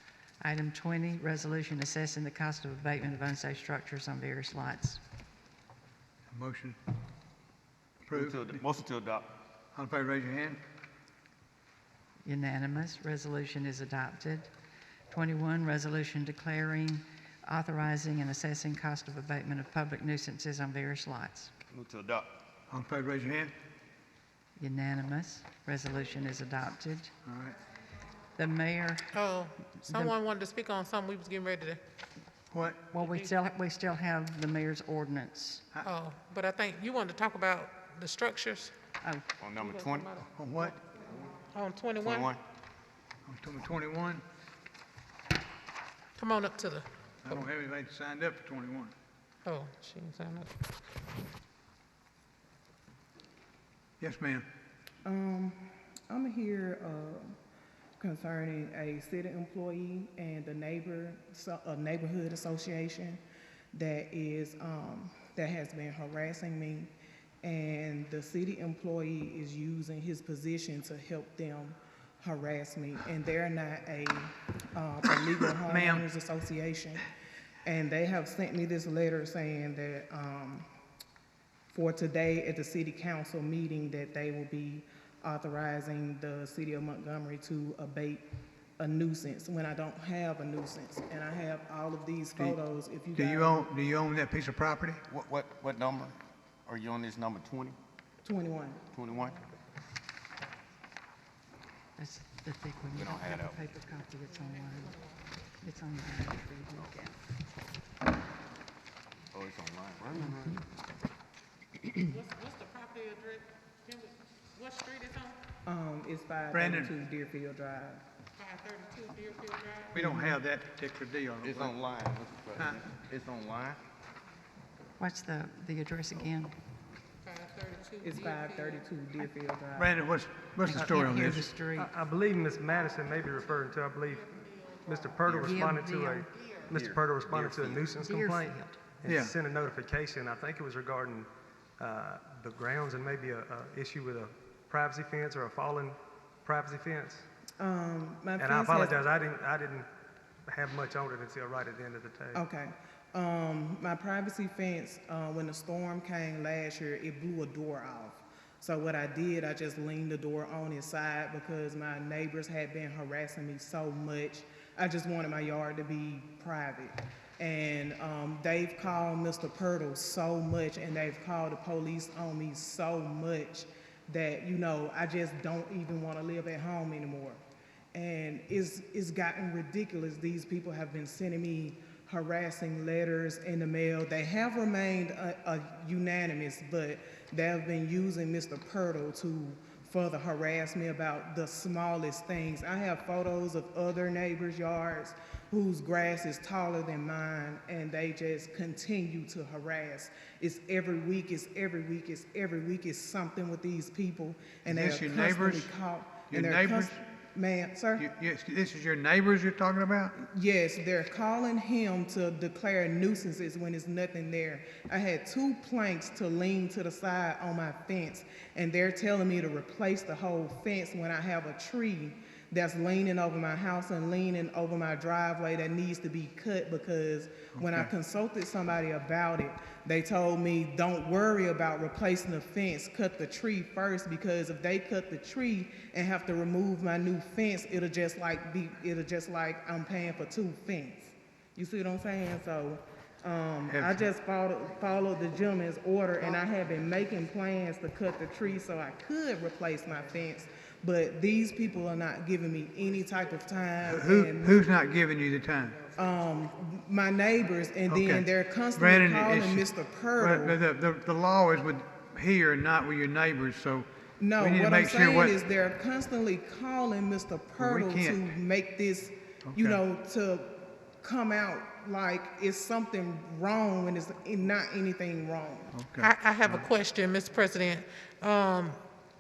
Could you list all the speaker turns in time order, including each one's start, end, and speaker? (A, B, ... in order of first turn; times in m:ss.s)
0:00.4-0:05.0 A
0:06.3-0:06.8 B
0:08.1-0:08.6 B
0:08.1-0:09.4 C
0:09.7-0:10.6 B
0:12.2-0:14.5 A
0:15.1-0:21.5 A
0:21.7-0:22.4 C
0:22.7-0:23.5 B
0:24.6-0:27.1 A
0:27.2-0:27.6 B
0:28.4-0:29.2 A
0:29.1-0:31.8 D
0:29.8-0:30.1 A
0:32.5-0:32.8 B
0:32.9-0:35.6 A
0:33.0-0:33.3 D
0:35.8-0:38.7 D
0:39.4-0:40.2 C
0:39.6-0:40.2 D
0:40.4-0:40.8 B
0:41.5-0:42.3 D
0:42.0-0:42.4 C
0:43.3-0:44.2 B
0:46.2-0:47.4 D
0:47.2-0:48.9 B
0:49.4-0:50.5 D
0:54.0-0:54.5 B
0:55.0-0:57.4 E
0:58.0-1:03.2 E
1:03.7-1:06.9 E
1:07.4-1:17.1 E
1:15.6-1:16.1 B
1:17.6-1:20.7 E
1:21.7-1:28.2 E
1:28.8-1:33.7 E
1:33.2-1:35.0 B
1:35.1-1:37.8 C
1:38.2-1:38.8 E
1:38.9-1:39.4 C
1:42.0-1:45.0 A
1:43.0-1:43.6 C
1:44.5-1:45.1 D
1:45.6-1:47.2 A
1:46.7-1:47.0 C
1:49.3-1:50.6 C
1:52.0-1:55.4 D
1:55.6-1:58.0 E
1:56.5-1:56.9 B
1:58.4-2:00.0 D
1:59.9-2:01.7 B
2:00.0-2:00.4 E
2:01.4-2:03.8 C
2:02.6-2:02.8 B
2:05.0-2:06.6 A
2:07.2-2:08.8 D
2:08.0-2:09.9 E
2:09.8-2:11.5 B
2:10.7-2:11.9 A
2:10.8-2:14.3 F
2:14.1-2:15.2 D
2:14.9-2:27.2 F
2:15.2-2:15.8 C
2:15.4-2:16.3 A
2:16.6-2:17.9 C
2:18.0-2:18.8 A
2:19.1-2:19.3 B
2:27.6-2:29.0 E
2:28.4-2:29.9 F
2:30.5-2:32.4 F
2:32.3-2:57.4 E
2:57.9-3:28.1 E
3:24.7-3:25.7 B
3:26.3-3:27.0 B
3:28.0-3:30.2 B
3:30.2-4:14.7 E
3:47.6-3:47.9 B
4:03.7-4:04.1 B
4:13.9-4:15.9 B
4:15.9-4:20.6 E
4:17.9-4:25.4 B
4:24.2-4:35.7 E
4:27.6-4:28.3 B
4:29.5-4:29.8 B
4:35.7-4:36.7 B
4:36.0-4:38.8 D